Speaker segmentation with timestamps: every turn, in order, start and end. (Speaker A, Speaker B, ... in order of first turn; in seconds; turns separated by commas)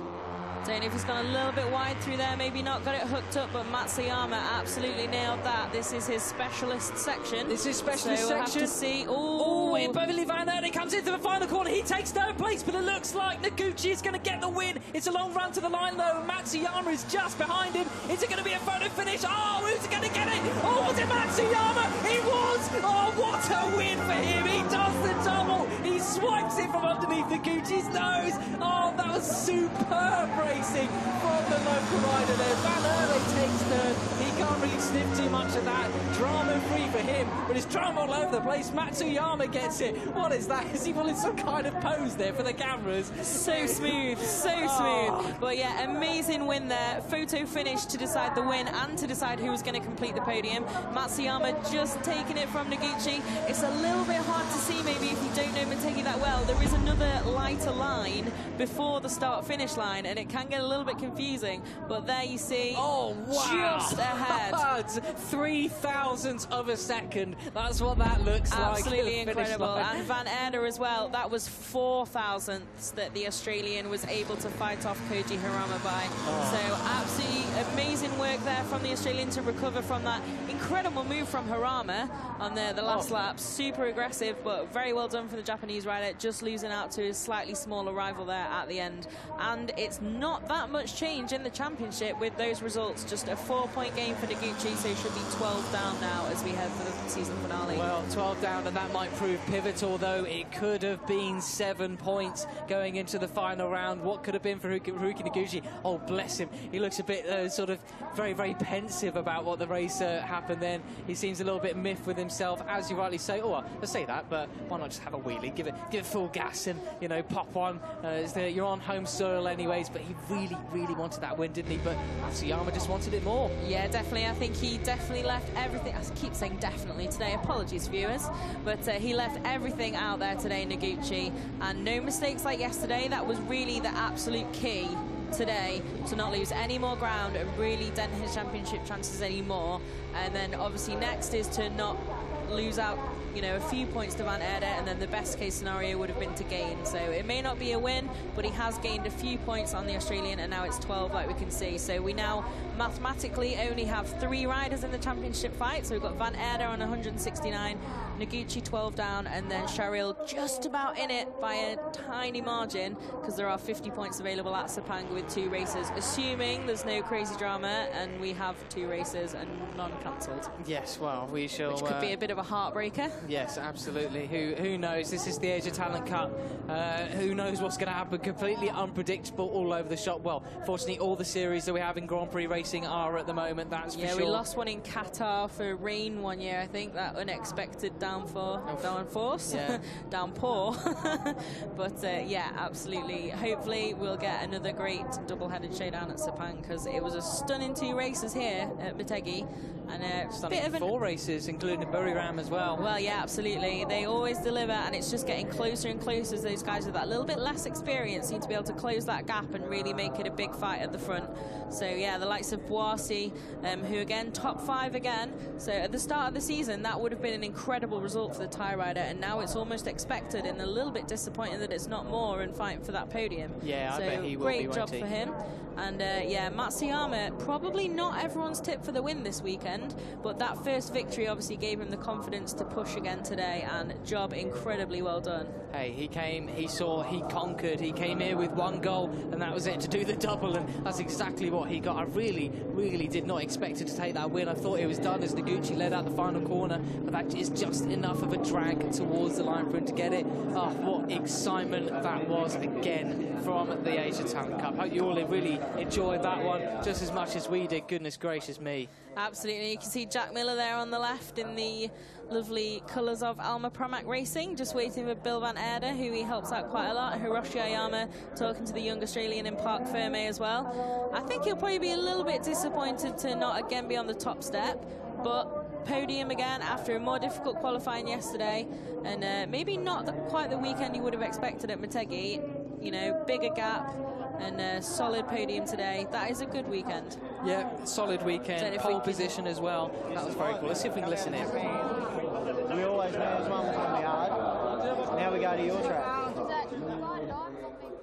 Speaker A: 0.6-10.0, Speaker B: 7.5-8.8, Speaker B: 9.4-45.4, Speaker A: 43.2-64.6, Speaker B: 62.7-70.1, Speaker A: 68.5-97.9, Speaker B: 76.2-76.6, Speaker B: 82.9-83.2, Speaker B: 97.7-123.5, Speaker A: 123.6-170.5, Speaker B: 170.6-172.1, Speaker A: 171.7-173.2, Speaker B: 173.2-184.4, Speaker A: 183.9-200.9, Speaker B: 188.7-188.9, Speaker B: 189.5-189.8, Speaker B: 200.3-202.8, Speaker A: 202.8-235.6, Speaker B: 223.6-225.1, Speaker B: 235.7-258.9, Speaker A: 259.1-287.2, Speaker B: 287.4-291.6, Speaker A: 288.6-289.4, Speaker C: 290.9-292.0, Speaker C: 292.6-294.4, Speaker C: 295.0-296.8